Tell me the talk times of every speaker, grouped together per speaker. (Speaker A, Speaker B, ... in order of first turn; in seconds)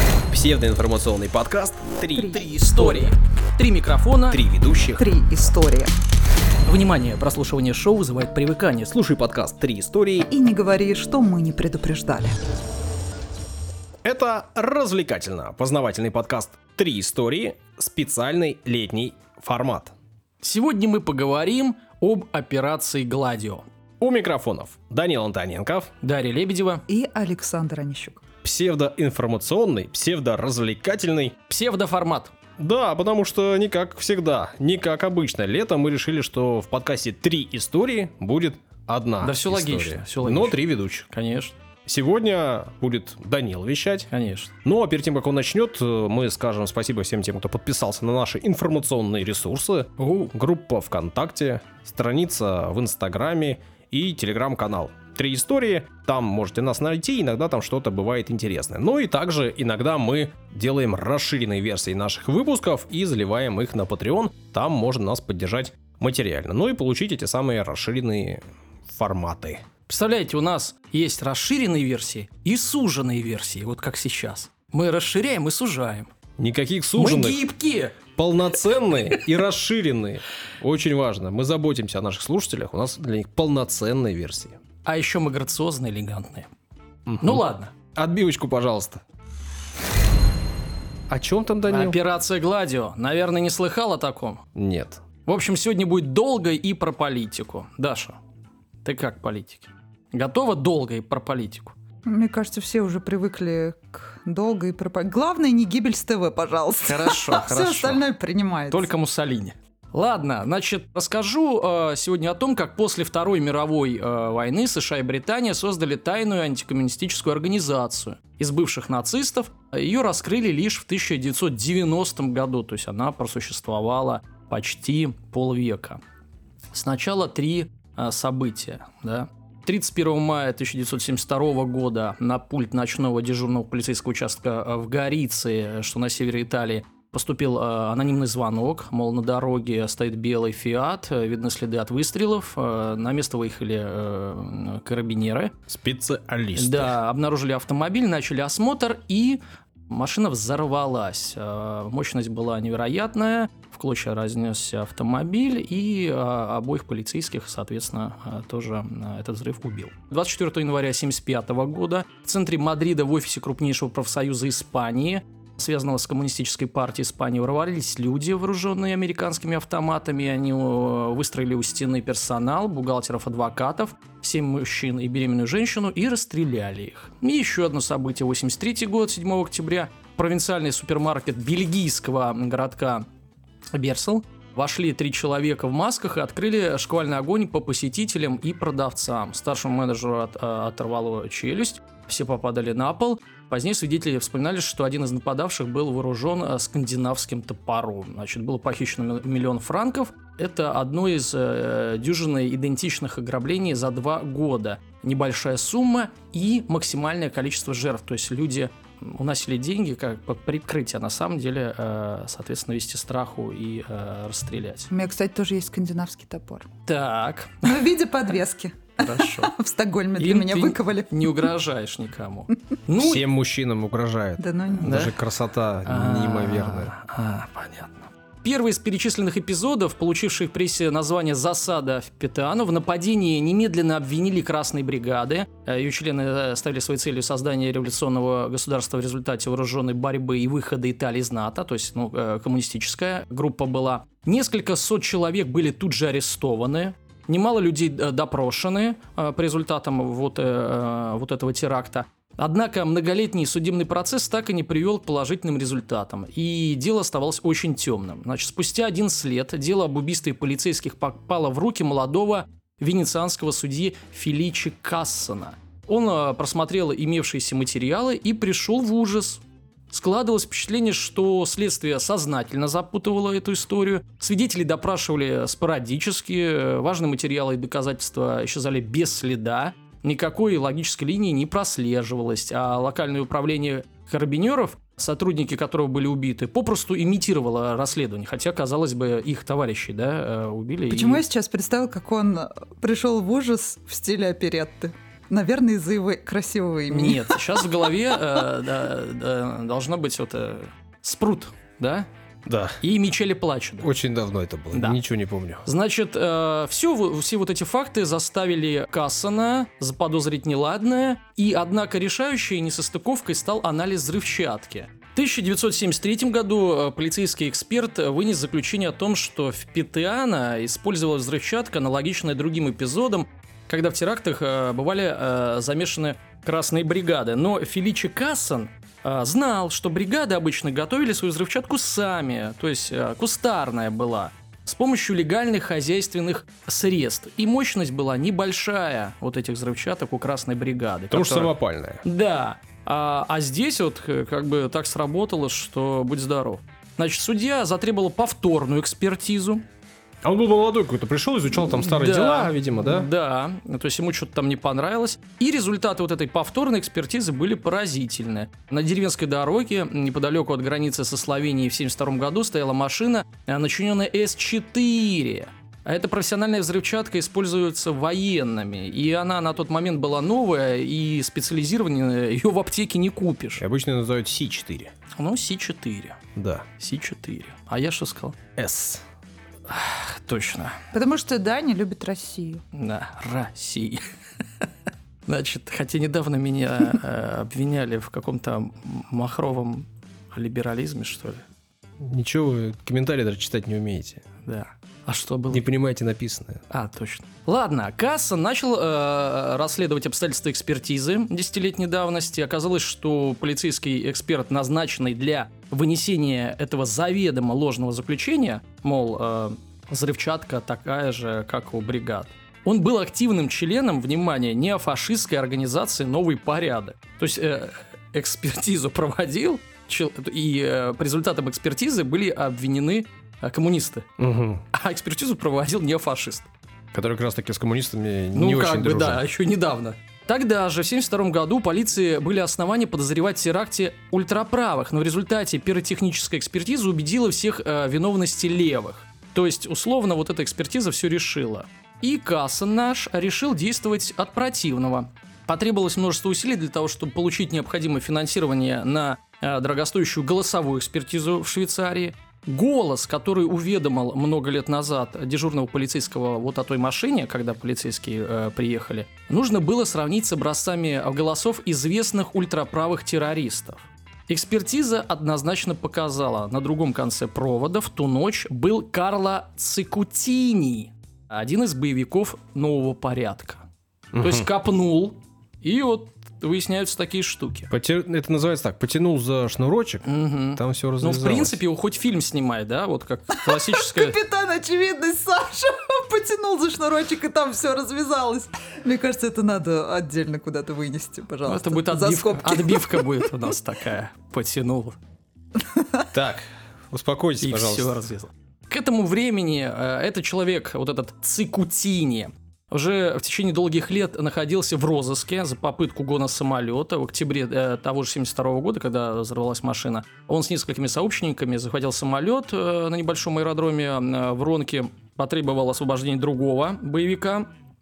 Speaker A: 0.3-3.0, 4.3-5.0, 8.9-10.3, 14.0-19.9, 24.0-25.9, 28.4-31.4, 32.6-41.1, 41.8-44.1, 44.6-69.6, 76.4-77.4, 78.2-84.6, 87.1-87.4, 87.9-89.0, 91.1-92.0, 94.5-95.0, 145.7-146.9, 223.0-226.9, 302.4-302.8, 303.8-305.6, 341.1-342.0, 350.2-353.1, 373.6-374.9, 376.4-376.6, 378.6-379.0, 392.0-394.2, 395.5-396.6, 424.2-424.6, 426.9-429.2, 474.1-474.5, 477.7-481.5, 496.1-497.9
Speaker B: 2.1-3.0, 4.9-5.9, 10.3-12.4, 26.9-28.2, 102.0-108.9, 214.9-216.7, 217.6-221.5, 224.4-225.0, 290.9-297.7, 380.9-382.6, 483.4-493.3, 495.8-496.0
Speaker C: 2.3-4.4, 6.7-8.9, 20.4-23.6, 26.0-26.8, 31.5-32.3, 39.2-41.5, 44.1-44.5, 50.0-50.3, 69.9-76.1, 76.9-78.0, 84.8-86.5, 87.2-87.7, 91.7-94.4, 95.2-98.2, 98.8-101.7, 106.9-108.0, 108.7-126.0, 126.7-145.5, 146.5-183.1, 183.7-214.9, 216.8-217.8, 219.0-219.5, 220.2-223.2, 224.8-225.2, 225.8-291.2, 296.9-302.1, 302.8-303.9, 304.7-305.0, 305.6-341.5, 342.0-349.6, 351.7-373.6, 375.1-376.2, 376.8-378.4, 379.7-380.8, 382.7-384.0, 385.2-391.4, 394.4-395.6, 396.7-424.1, 424.7-426.5, 428.3-473.6, 474.2-477.7, 480.1-484.2, 491.4-495.0, 497.4-517.5